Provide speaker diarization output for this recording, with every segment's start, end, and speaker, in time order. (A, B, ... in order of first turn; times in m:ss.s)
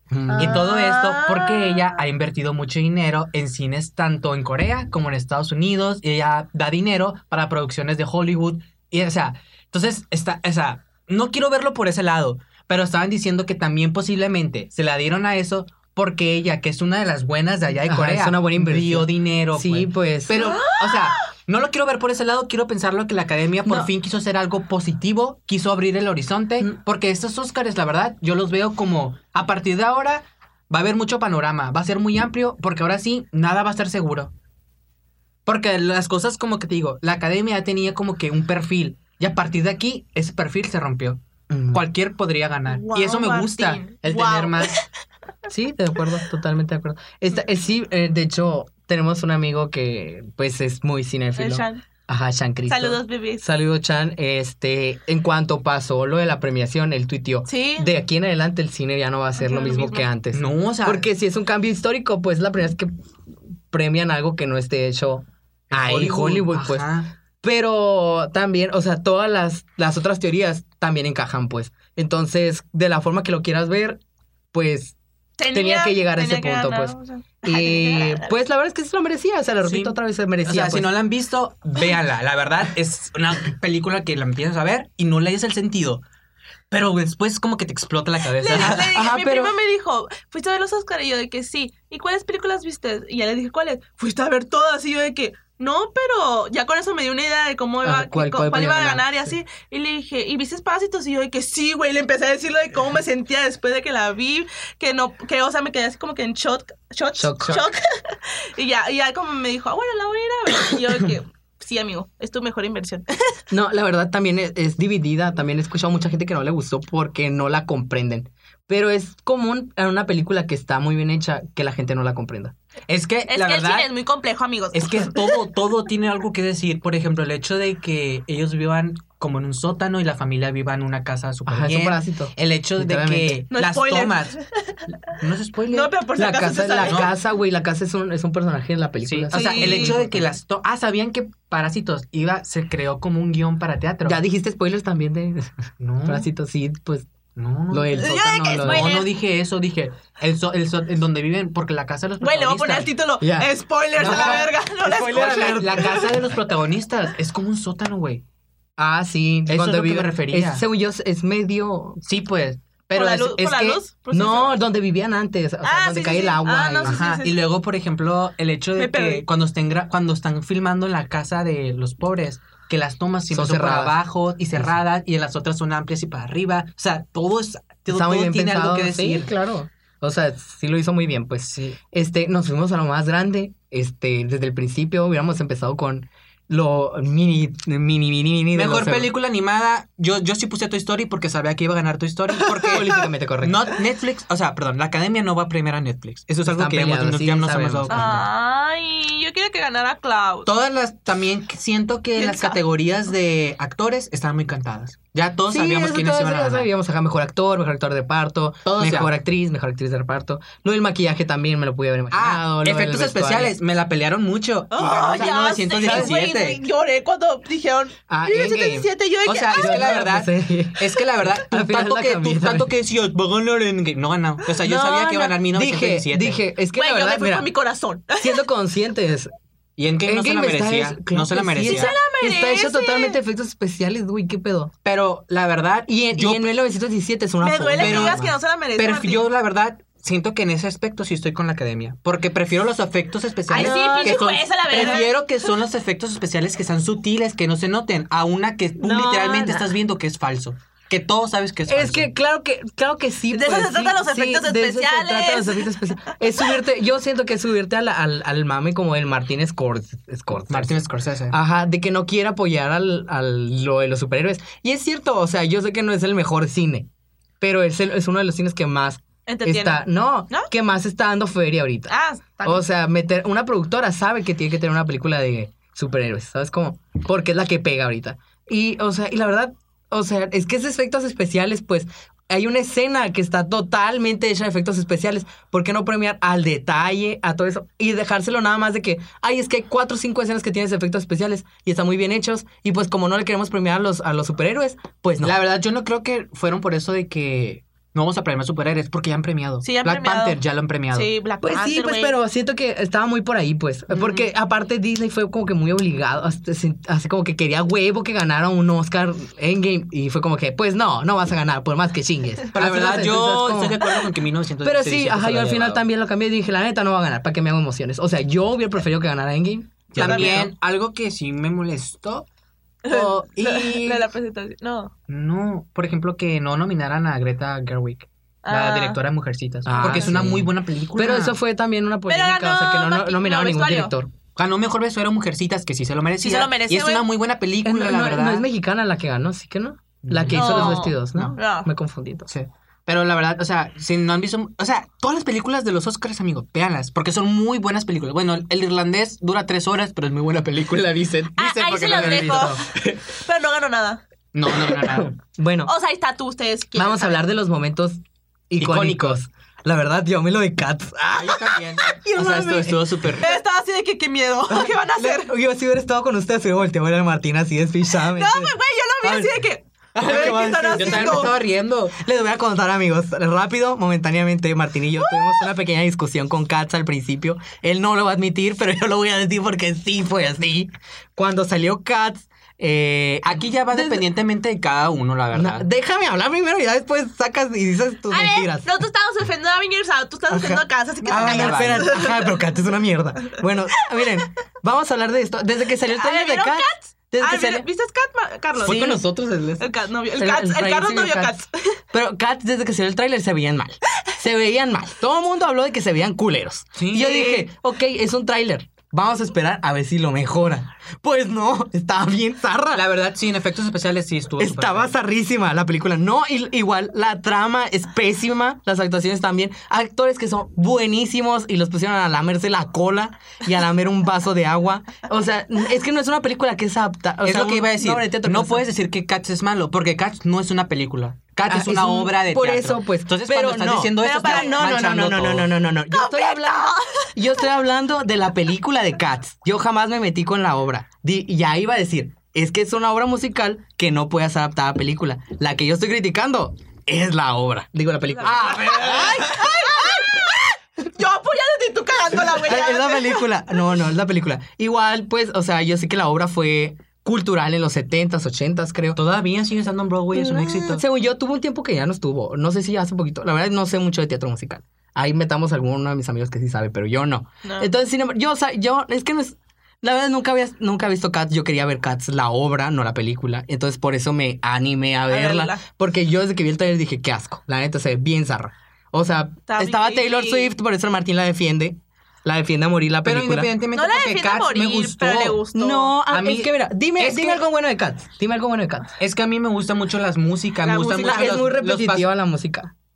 0:00.1-0:00.6 A
0:00.3-0:02.0 B
0:00.3-0:34.3 C
0:17.8-0:20.5 A
0:20.4-0:21.2 B
0:23.6-0:23.9 A
0:35.4-0:41.2 C
0:41.5-0:41.8 A
0:41.7-0:44.8 C
0:42.7-0:44.8 B
0:45.5-1:02.9 A
0:51.4-0:51.8 B
0:52.7-0:53.4 B
0:57.5-0:57.9 B
0:59.4-1:00.1 B
1:00.3-1:01.1 C
1:03.7-1:06.9 A
1:05.7-1:07.1 C
1:07.4-1:14.0 A
1:14.5-1:15.0 A
1:15.4-1:18.3 B
1:15.5-1:20.9 A
1:19.6-1:26.0 C
1:26.7-1:28.9 C
1:28.4-1:53.4 B
1:28.5-1:29.5 A
1:37.8-1:39.3 A
1:47.2-1:47.7 A
1:53.5-2:02.5 A
2:02.9-2:03.9 C
2:03.3-2:05.4 B
2:04.7-2:14.4 C
2:11.4-2:13.4 A
2:13.5-2:15.1 B
2:15.1-2:15.9 C
2:15.7-2:17.1 B
2:16.1-2:20.3 A
2:16.8-2:17.1 C
2:19.0-2:24.2 C
2:19.3-2:20.0 B
2:24.0-2:27.1 A
2:25.8-2:26.3 C
2:27.4-2:32.9 C
2:27.7-2:29.0 A
2:28.0-2:29.1 B
2:32.2-2:36.1 B
2:33.2-2:36.1 A
2:34.0-2:38.2 C
2:38.8-2:42.0 A
2:39.5-2:40.6 C
2:42.0-2:42.6 C
2:42.9-2:47.0 A
2:42.9-2:44.6 B
2:45.6-2:47.3 B
2:46.8-2:59.3 C
2:48.8-2:49.2 B
2:53.3-2:54.0 A
2:57.9-3:09.1 A
3:01.5-3:01.8 C
3:08.5-3:18.2 C
3:12.6-3:13.6 A
3:16.4-3:18.2 A
3:17.9-3:20.5 B
3:20.4-3:26.7 C
3:22.2-3:22.6 B
3:25.5-3:33.6 A
3:28.6-3:29.1 C
3:32.1-3:36.6 C
3:34.7-3:39.9 B
3:35.8-3:36.2 A
3:38.1-3:38.9 A
3:39.2-3:46.4 C
3:39.5-3:42.7 A
3:44.6-3:47.5 A
3:46.7-3:48.4 B
3:48.2-3:49.3 A
3:49.8-3:51.9 C
3:50.0-3:54.7 A
3:51.6-3:53.2 B
3:54.8-3:56.5 C
3:55.9-3:58.3 A
3:57.4-3:59.2 B
3:57.8-4:12.1 C
4:03.5-4:05.1 B
4:03.5-4:05.0 A
4:08.8-4:09.7 A
4:11.7-4:20.7 A
4:13.3-4:16.1 B
4:20.5-4:21.4 C
4:21.3-4:26.9 A
4:27.4-4:55.4 A
4:29.3-4:30.5 B
4:31.9-4:32.6 B
4:55.2-5:01.1 C
4:59.6-5:00.4 B
5:00.9-5:02.1 B
5:01.4-5:13.9 A
5:03.9-5:04.2 C
5:12.5-5:15.8 C
5:14.6-5:20.5 A
5:19.9-5:22.2 C
5:20.0-5:20.5 B
5:22.8-5:24.9 B
5:22.9-5:24.0 A
5:22.9-5:23.2 C
5:25.1-5:31.4 C
5:28.4-5:29.0 B
5:29.6-5:34.1 A
5:32.1-5:33.9 B
5:34.3-5:38.4 C
5:36.2-5:37.0 B
5:37.6-5:42.3 A
5:40.0-5:41.4 C
5:40.3-5:41.7 B
5:42.3-5:52.6 C
5:51.3-5:53.0 A
5:51.4-5:54.0 B
5:54.3-5:55.1 C
5:54.5-5:55.7 A
5:55.6-5:57.2 B
5:56.7-6:03.3 A
5:58.6-5:59.2 C
6:01.1-6:03.3 C
6:03.2-6:05.3 B
6:04.5-6:09.4 A
6:08.1-6:11.3 B
6:10.0-6:11.4 A
6:10.0-6:11.9 C
6:11.9-6:24.0 A
6:15.0-6:15.4 B
6:23.2-6:25.7 C
6:25.3-6:28.7 A
6:28.1-6:32.4 B
6:30.3-6:37.7 A
6:31.0-6:31.9 C
6:35.9-6:39.0 B
6:38.6-6:52.8 A
6:38.6-6:38.9 C
6:39.6-6:41.8 B
6:46.7-6:47.4 C
6:52.7-6:54.9 C
6:54.4-7:08.6 A
7:07.2-7:15.5 C
7:11.4-7:30.3 A
7:14.0-7:14.6 B
7:15.9-7:17.2 B
7:28.2-7:33.3 B
7:28.3-7:29.1 C
7:32.1-7:39.0 A
7:38.9-7:40.8 C
7:40.4-8:03.5 A
7:47.4-7:47.7 B
7:55.1-7:55.6 B
7:59.5-8:00.5 B
8:03.0-8:05.4 C
8:03.7-8:06.0 B
8:05.5-8:09.0 A
8:06.1-8:07.4 C
8:09.0-8:12.1 C
8:10.6-8:11.4 B
8:11.0-8:12.7 A